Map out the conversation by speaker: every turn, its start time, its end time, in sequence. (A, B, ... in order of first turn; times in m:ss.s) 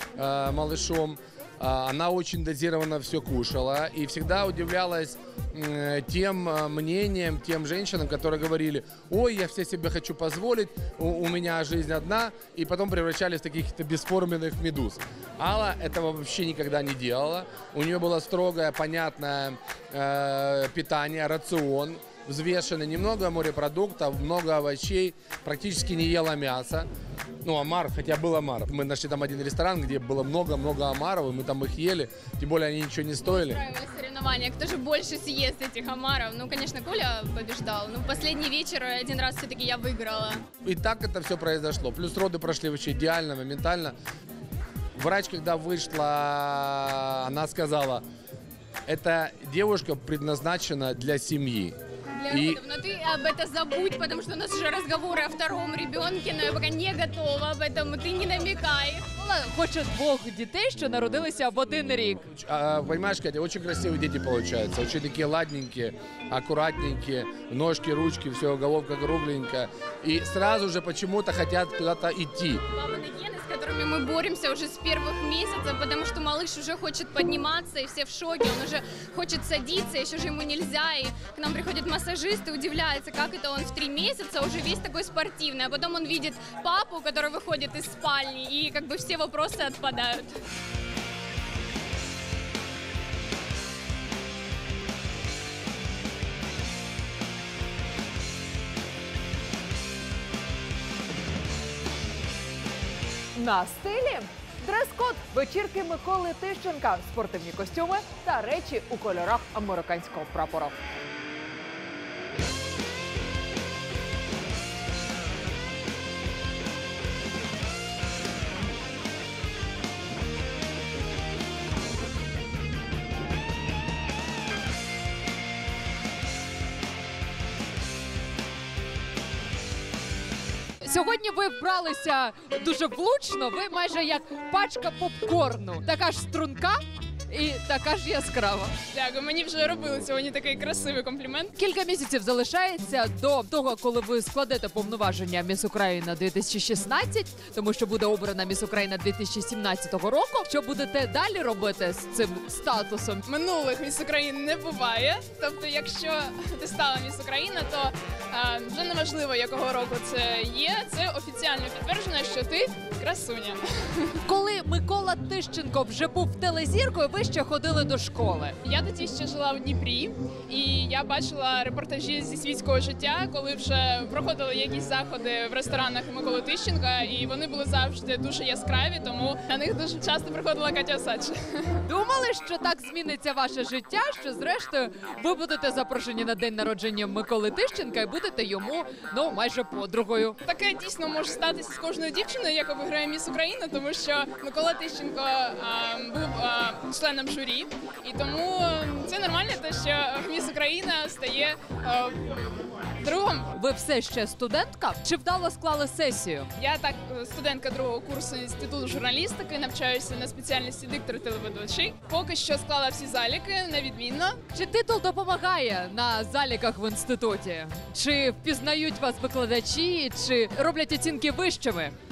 0:00.2-0:26.9 A
0:27.4-0:33.6 A
0:33.3-0:40.4 B
0:40.6-0:44.0 A
0:45.0-0:48.0 A
0:48.9-0:51.8 A
0:52.2-0:59.1 B
0:52.3-0:52.6 A
0:59.2-1:02.2 C
1:02.3-1:12.6 A
1:12.8-1:30.4 B
1:43.4-1:50.8 C
2:10.8-2:18.7 C
2:18.9-2:21.5 D
2:21.6-2:33.2 C
2:33.2-2:44.2 D
2:44.2-2:48.6 C
2:48.6-3:01.8 D
3:01.8-3:10.4 C
3:10.4-3:22.2 D
3:23.0-3:23.5 D
3:23.5-3:26.5 C
3:26.6-3:34.4 D
3:34.5-3:41.9 C